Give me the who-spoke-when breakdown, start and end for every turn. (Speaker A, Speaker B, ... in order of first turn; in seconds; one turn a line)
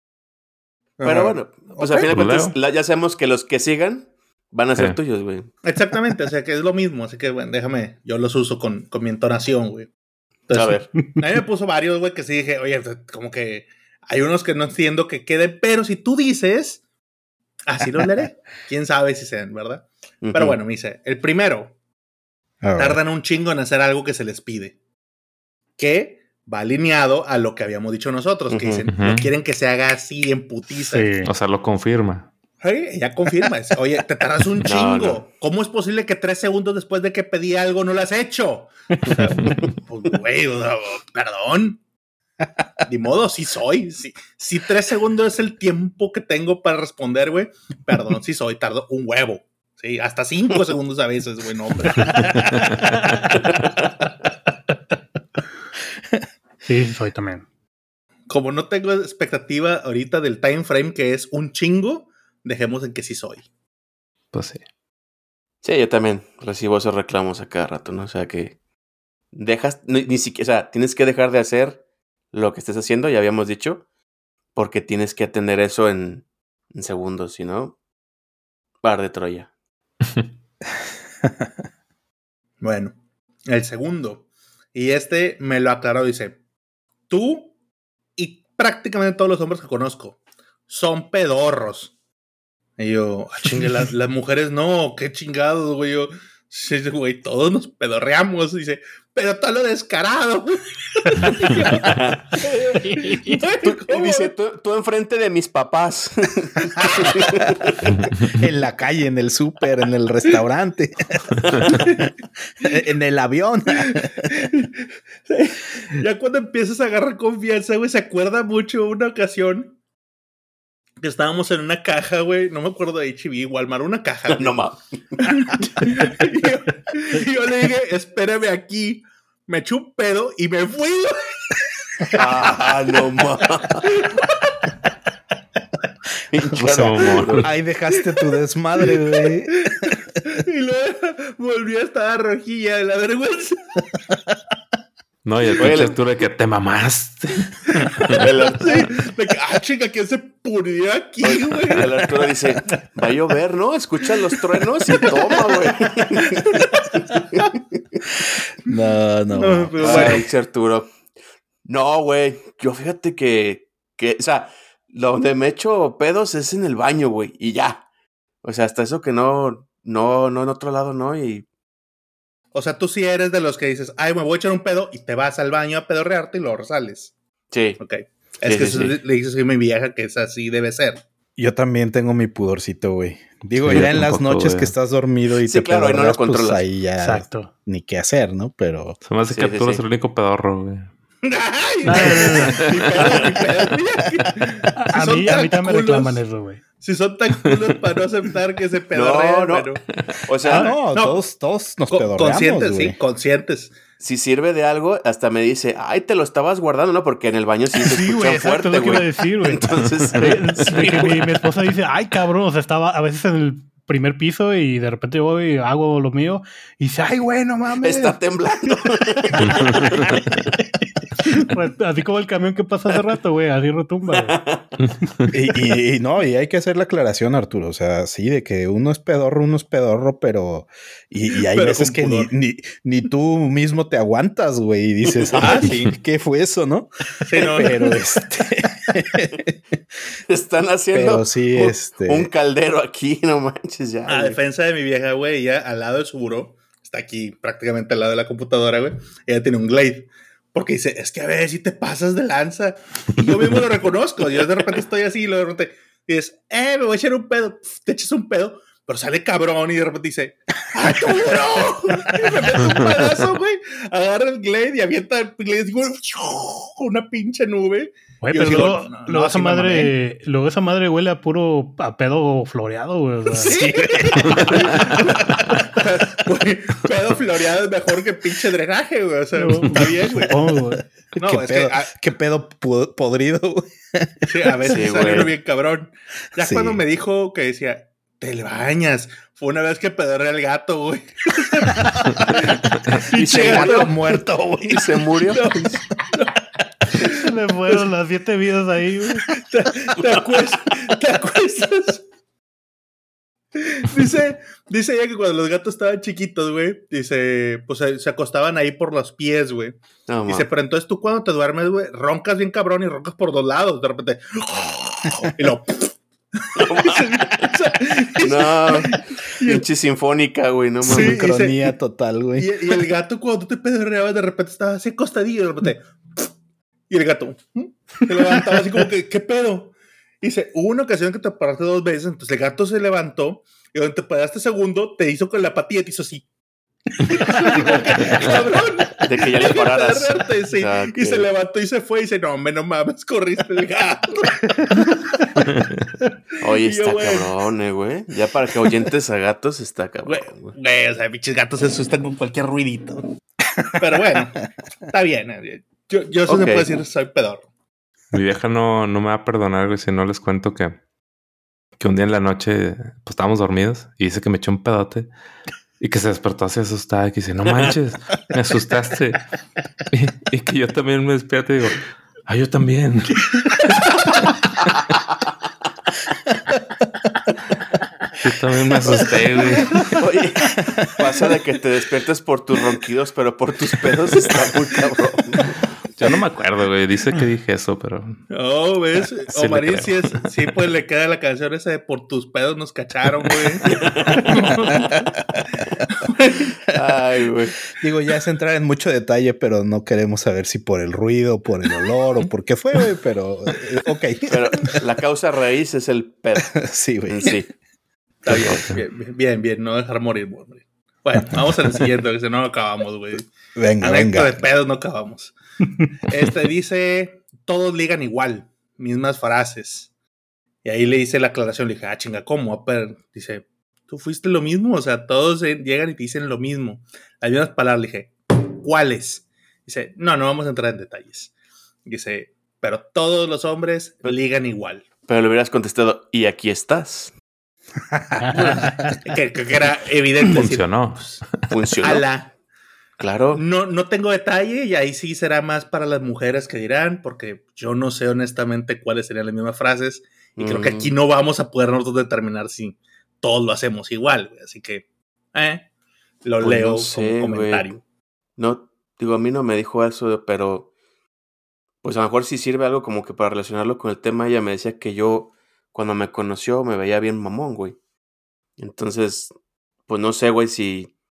Speaker A: 1.0-2.1
Speaker B: 1.0-5.5
Speaker C: 2.0-2.5
Speaker A: 5.6-9.9
Speaker A: 10.5-16.8
Speaker B: 10.5-10.9
Speaker A: 17.7-21.7
Speaker B: 20.2-20.6
Speaker D: 22.6-23.0
Speaker A: 22.8-24.8
Speaker A: 25.8-31.1
Speaker B: 28.5-28.9
Speaker C: 28.9-29.3
Speaker E: 30.8-31.3
Speaker C: 31.2-32.3
Speaker A: 32.6-41.8
Speaker B: 34.6-35.2
Speaker A: 42.8-53.0
Speaker C: 52.2-52.7
Speaker E: 56.6-57.4
Speaker A: 58.3-63.4
Speaker C: 64.3-64.6
Speaker B: 65.6-68.6
Speaker B: 69.3-71.8
Speaker B: 72.3-73.8
Speaker B: 74.5-77.7
Speaker B: 78.8-79.5
Speaker A: 82.6-83.0
Speaker A: 83.5-86.4
Speaker A: 87.1-87.5
Speaker A: 88.2-91.9
Speaker A: 92.8-104.3
Speaker B: 101.3-102.4
Speaker B: 103.6-107.7
Speaker A: 106.8-107.4
Speaker C: 108.0-108.2
Speaker D: 108.3-112.1
Speaker A: 111.6-112.1
Speaker D: 112.6-114.3
Speaker A: 114.3-114.7
Speaker A: 115.3-119.8
Speaker A: 121.0-124.6
Speaker B: 124.3-125.2
Speaker A: 125.2-132.7
Speaker B: 132.1-133.9
Speaker A: 133.8-134.7
Speaker B: 136.3-137.5
Speaker C: 136.6-137.5
Speaker D: 136.6-140.0
Speaker A: 138.8-143.8
Speaker C: 145.2-148.2
Speaker B: 145.6-145.9
Speaker A: 147.7-152.3
Speaker B: 148.2-148.9
Speaker B: 151.2-157.5
Speaker A: 156.4-156.9
Speaker D: 158.6-160.2
Speaker A: 159.3-160.3
Speaker B: 159.8-160.9
Speaker B: 161.7-167.8
Speaker B: 168.4-171.4
Speaker A: 172.5-177.1
Speaker B: 177.5-177.8
Speaker A: 177.8-181.0
Speaker B: 178.4-179.0
Speaker D: 181.3-189.0
Speaker C: 183.6-184.7
Speaker B: 185.4-186.6
Speaker E: 187.0-187.5
Speaker C: 189.0-190.9
Speaker B: 189.3-189.8
Speaker A: 191.2-196.2
Speaker E: 191.8-192.6
Speaker C: 192.5-192.9
Speaker B: 192.9-193.5
Speaker E: 194.8-196.6
Speaker A: 196.8-199.8
Speaker B: 198.9-199.7
Speaker C: 199.9-200.2
Speaker B: 200.2-200.8
Speaker A: 200.4-201.2
Speaker D: 200.5-203.0
Speaker A: 201.9-203.7
Speaker B: 204.0-211.3
Speaker E: 207.8-217.9
Speaker B: 217.8-220.2
Speaker E: 219.3-219.9
Speaker C: 219.4-220.5
Speaker E: 221.2-224.4
Speaker B: 224.1-224.8
Speaker D: 225.3-236.9
Speaker A: 231.4-232.3
Speaker A: 235.3-235.9
Speaker A: 237.2-237.9
Speaker D: 237.4-239.5
Speaker B: 240.3-244.4
Speaker D: 240.9-242.3
Speaker A: 244.1-269.9
Speaker E: 268.2-275.1
Speaker A: 273.3-280.4
Speaker E: 279.3-280.8
Speaker A: 281.2-281.9
Speaker D: 281.2-285.0
Speaker A: 284.2-294.0
Speaker B: 284.6-285.4
Speaker D: 286.4-286.8
Speaker D: 291.7-292.1
Speaker B: 293.1-293.9
Speaker D: 293.2-295.0
Speaker B: 294.7-295.7
Speaker A: 295.2-297.8
Speaker E: 297.0-299.2
Speaker A: 299.3-302.0
Speaker A: 303.5-319.6
Speaker B: 310.1-310.5
Speaker B: 316.6-317.4
Speaker B: 318.2-321.2
Speaker D: 320.8-322.8
Speaker A: 320.8-321.6
Speaker A: 322.4-326.3
Speaker A: 326.9-336.2
Speaker A: 337.0-345.3
Speaker B: 337.8-341.3
Speaker B: 346.4-350.5
Speaker A: 346.4-347.3
Speaker A: 350.1-353.0
Speaker D: 353.5-354.0
Speaker A: 353.8-357.4
Speaker B: 356.3-356.7
Speaker C: 358.1-360.8
Speaker C: 361.8-365.1
Speaker C: 365.8-369.3
Speaker C: 369.9-373.6
Speaker C: 378.2-379.9
Speaker B: 379.8-385.6
Speaker D: 380.6-380.9
Speaker C: 385.9-388.2
Speaker A: 388.3-395.0
Speaker C: 389.3-390.2
Speaker B: 393.6-394.9
Speaker A: 396.0-396.5
Speaker B: 396.7-397.7
Speaker D: 397.8-404.4
Speaker B: 404.3-407.5
Speaker D: 406.4-407.4
Speaker B: 408.2-408.6
Speaker A: 408.2-415.3
Speaker C: 408.3-408.8
Speaker D: 413.5-414.5
Speaker A: 416.0-419.9
Speaker A: 420.6-431.3
Speaker A: 431.8-434.8
Speaker B: 435.1-437.1
Speaker E: 438.2-438.8
Speaker A: 438.3-441.2
Speaker C: 440.2-441.5
Speaker B: 441.5-442.1
Speaker A: 441.8-442.3
Speaker B: 443.0-443.4
Speaker A: 443.3-455.6
Speaker B: 450.4-450.9
Speaker A: 456.2-457.8
Speaker B: 456.4-457.8
Speaker B: 458.4-460.7
Speaker B: 461.8-467.8
Speaker B: 468.6-469.3
Speaker B: 469.9-470.9